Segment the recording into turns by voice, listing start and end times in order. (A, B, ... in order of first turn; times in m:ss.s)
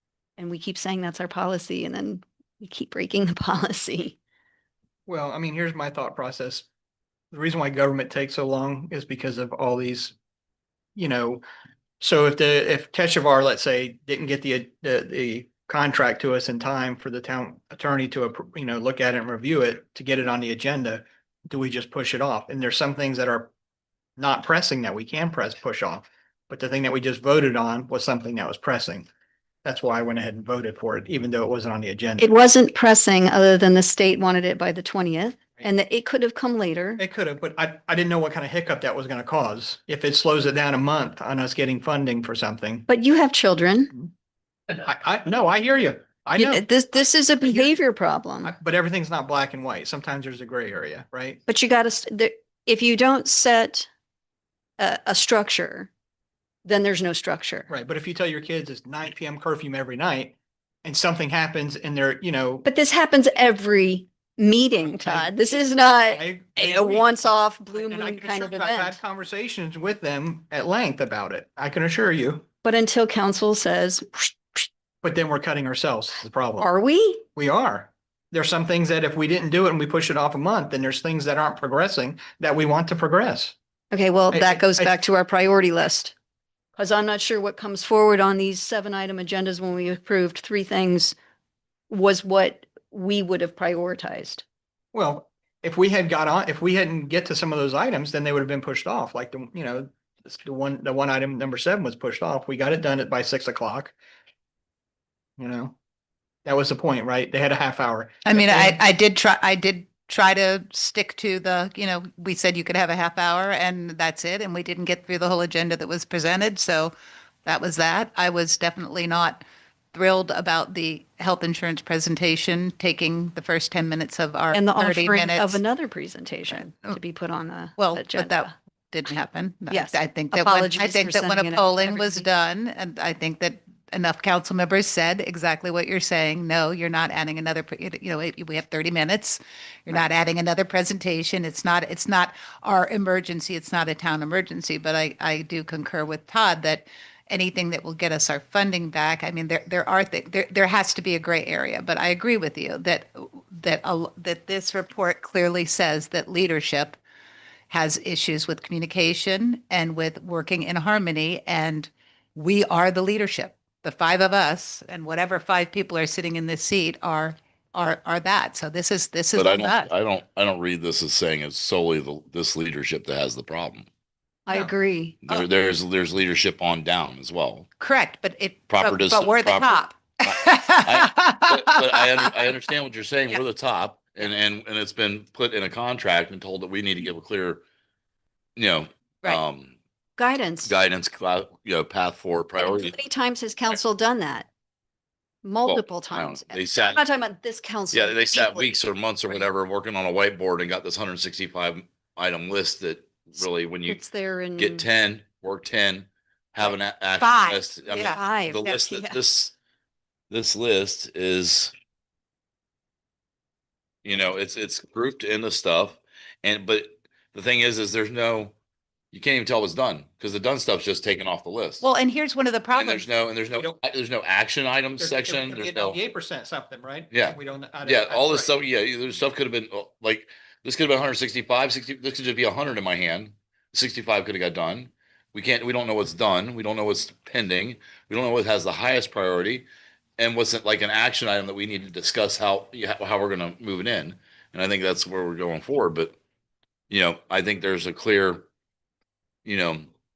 0:00.4-0:04.2 A
0:05.1-0:06.7 B
0:07.3-0:10.1 B
0:11.0-0:11.4 B
0:12.0-0:23.5 B
0:24.2-0:29.1 B
0:29.6-0:32.3 B
0:32.2-0:37.0 A
0:37.0-0:42.9 B
0:42.9-0:43.9 A
0:44.7-0:46.6 B
0:46.4-0:48.5 A
0:48.4-0:51.4 B
0:51.5-0:53.9 A
0:54.8-0:55.9 A
0:56.6-0:57.7 A
0:57.7-1:02.7 B
1:02.6-1:09.0 A
1:05.0-1:05.4 B
1:06.1-1:07.1 B
1:07.8-1:12.4 B
1:12.6-1:14.7 A
1:15.0-1:16.7 B
1:16.6-1:17.2 A
1:17.4-1:23.6 B
1:23.9-1:26.1 A
1:24.3-1:25.0 B
1:26.8-1:31.2 A
1:31.9-1:34.4 A
1:34.9-1:44.0 B
1:45.4-1:45.8 B
1:46.4-1:48.8 B
1:48.2-1:56.9 C
1:57.4-1:59.4 C
1:59.9-2:05.6 C
2:04.5-2:08.5 A
2:06.5-2:07.0 C
2:07.8-2:37.0 C
2:09.7-2:12.3 A
2:37.7-2:49.9 C
2:49.4-2:53.9 D
2:54.5-2:55.2 A
2:55.2-2:57.7 D
2:57.8-3:02.4 C
2:58.7-2:59.8 D
3:00.9-3:07.6 D
3:08.6-3:09.7 D
3:10.2-3:10.7 A
3:10.6-3:13.0 D
3:12.6-3:14.5 A
3:15.4-3:18.7 A
3:15.6-3:17.0 D
3:17.9-3:24.0 D
3:23.4-3:24.9 A
3:24.6-3:29.5 D
3:27.2-3:28.2 C
3:28.0-3:29.2 A
3:30.3-3:31.7 D
3:34.0-3:38.5 D
3:39.1-3:41.9 D
3:41.8-3:43.1 C
3:42.8-3:46.0 D
3:45.0-3:48.5 B
3:47.1-3:59.7 D
4:00.2-4:06.2 D
4:06.9-4:08.5 D
4:09.4-4:09.9 D